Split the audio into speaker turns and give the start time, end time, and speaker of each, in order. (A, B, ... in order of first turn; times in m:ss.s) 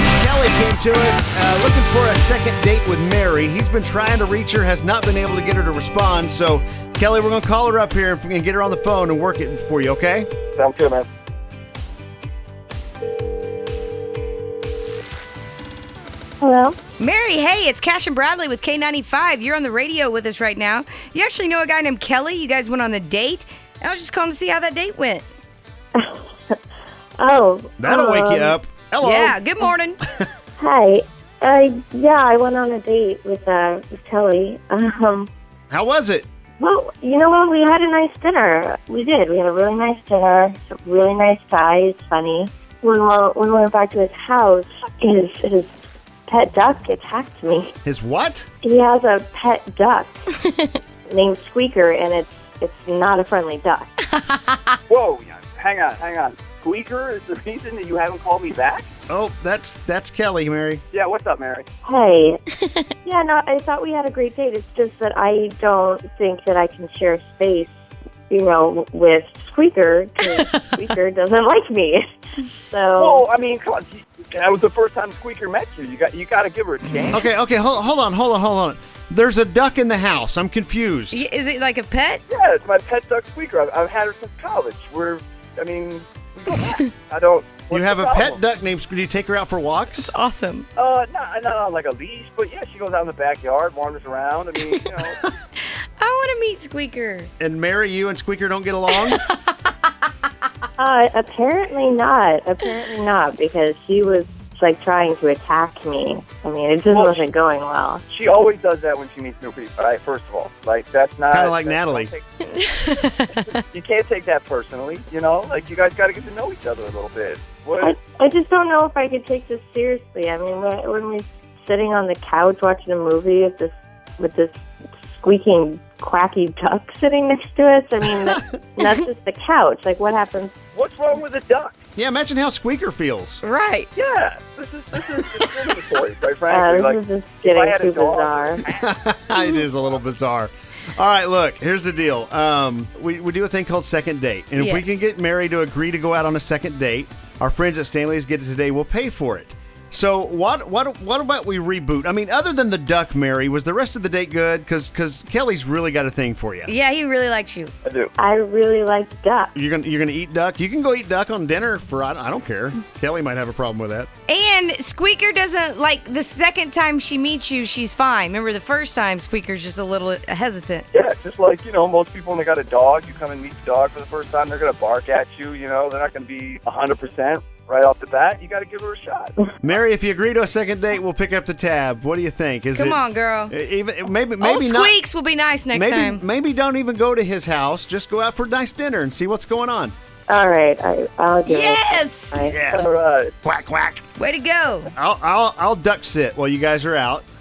0:00.2-0:10.3 A
0:10.6-0:11.1 B
0:16.4-0:16.8 C
0:17.0-0:25.2 D
0:25.9-0:26.6 C
0:27.2-0:28.6 C
0:27.8-0:29.4 A
0:29.0-0:30.0 D
0:30.6-0:35.3 C
0:35.7-0:36.3 A
0:36.6-0:45.8 C
0:46.3-0:47.7 C
0:47.8-0:48.5 A
0:48.6-0:50.2 C
0:51.0-0:53.9 C
0:54.2-0:54.8 D
0:54.9-0:58.9 B
0:59.1-1:00.8 A
1:00.9-1:01.6 B
1:01.8-1:02.4 C
1:03.0-1:12.0 C
1:10.4-1:10.7 D
1:12.6-1:13.2 C
1:13.0-1:17.2 B
1:16.8-1:17.2 D
1:17.1-1:21.2 A
1:21.1-1:22.2 D
1:22.3-1:28.4 B
1:27.7-1:30.1 A
1:30.0-1:30.7 D
1:30.8-1:35.2 B
1:36.0-1:37.3 D
1:37.4-1:39.2 A
1:39.0-1:39.7 D
1:40.8-1:48.0 C
1:46.9-1:47.2 B
1:48.1-1:52.2 B
1:51.3-1:52.1 A
1:52.5-1:53.6 D
1:53.5-1:58.0 B
1:57.8-2:10.5 C
2:10.7-2:11.8 B
2:12.0-2:13.4 A
2:13.4-2:13.9 D
2:13.9-2:19.0 B
2:16.5-2:18.6 C
2:18.8-2:36.7 A
2:24.6-2:25.0 D
2:36.7-2:37.7 D
2:37.8-2:38.1 B
2:38.2-2:39.5 C
2:39.5-2:44.1 A
2:44.3-2:50.9 D
2:50.9-2:59.5 B
2:59.6-3:05.0 A
3:02.7-3:03.5 D
3:04.4-3:06.2 D
3:05.7-3:09.9 A
3:10.3-3:12.9 C
3:11.4-3:12.4 D
3:12.5-3:12.9 A
3:12.7-3:13.3 B
3:13.4-3:14.0 A
3:14.2-3:14.9 D
3:14.9-3:17.2 A